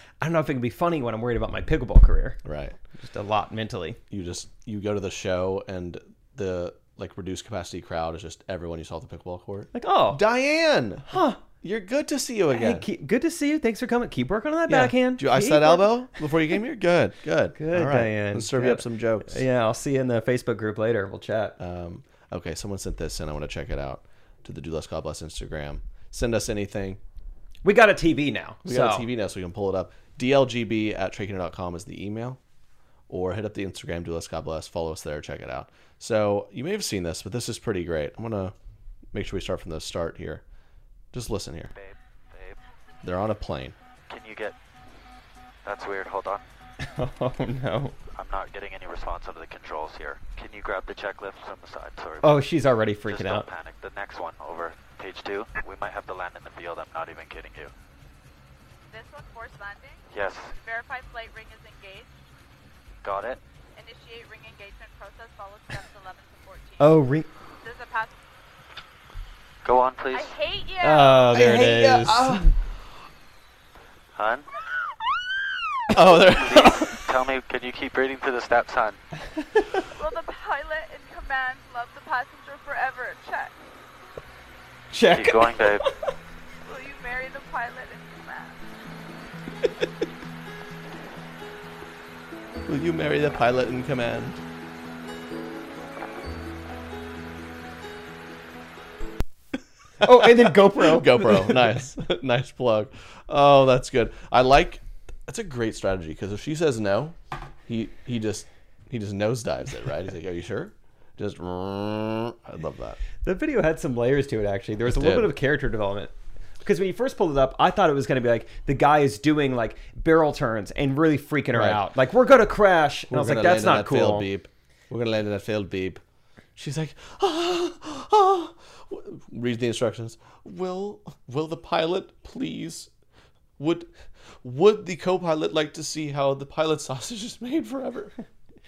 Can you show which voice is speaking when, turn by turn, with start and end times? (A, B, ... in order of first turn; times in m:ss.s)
0:00.2-0:02.4 A
0:02.4-0:02.8 B
0:03.0-0:04.0 A
0:04.1-0:12.9 B
0:09.7-0:10.2 A
0:11.1-0:11.4 A
0:12.5-0:15.9 A
0:14.7-0:19.4 B
0:17.6-0:21.6 A
0:21.6-0:27.0 B
0:27.6-0:29.1 A
0:28.6-0:32.4 B
0:33.1-0:38.6 B
0:39.1-0:40.4 B
0:41.1-0:41.7 B
0:41.8-0:42.6 C
0:43.0-0:43.8 B
0:44.1-0:44.6 C
0:45.6-0:46.4 C
0:46.8-0:48.0 A
0:48.1-0:52.4 C
0:52.2-0:53.5 A
0:53.1-0:57.7 C
0:58.9-1:00.0 D
1:00.1-1:00.6 C
1:00.6-1:02.1 D
1:03.0-1:03.4 C
1:03.8-1:07.0 D
1:06.8-1:07.3 A
1:07.6-1:08.2 D
1:09.6-1:10.4 C
1:10.1-1:11.3 D
1:10.8-1:12.5 A
1:11.3-1:12.5 B
1:14.2-1:14.5 C
1:15.9-1:16.9 B
1:16.2-1:19.0 C
1:20.0-1:23.5 D
1:24.9-1:25.9 A
1:25.1-1:25.8 C
1:26.6-1:28.6 D
1:32.7-1:34.4 B
1:40.0-1:41.8 A
1:40.0-1:53.0 B
1:53.2-1:56.1 A
1:54.9-1:55.3 B
1:56.6-2:04.3 A
2:01.5-2:01.8 B
2:03.1-2:06.0 B
2:06.6-2:12.9 B
2:13.6-2:13.9 B
2:14.4-2:18.1 B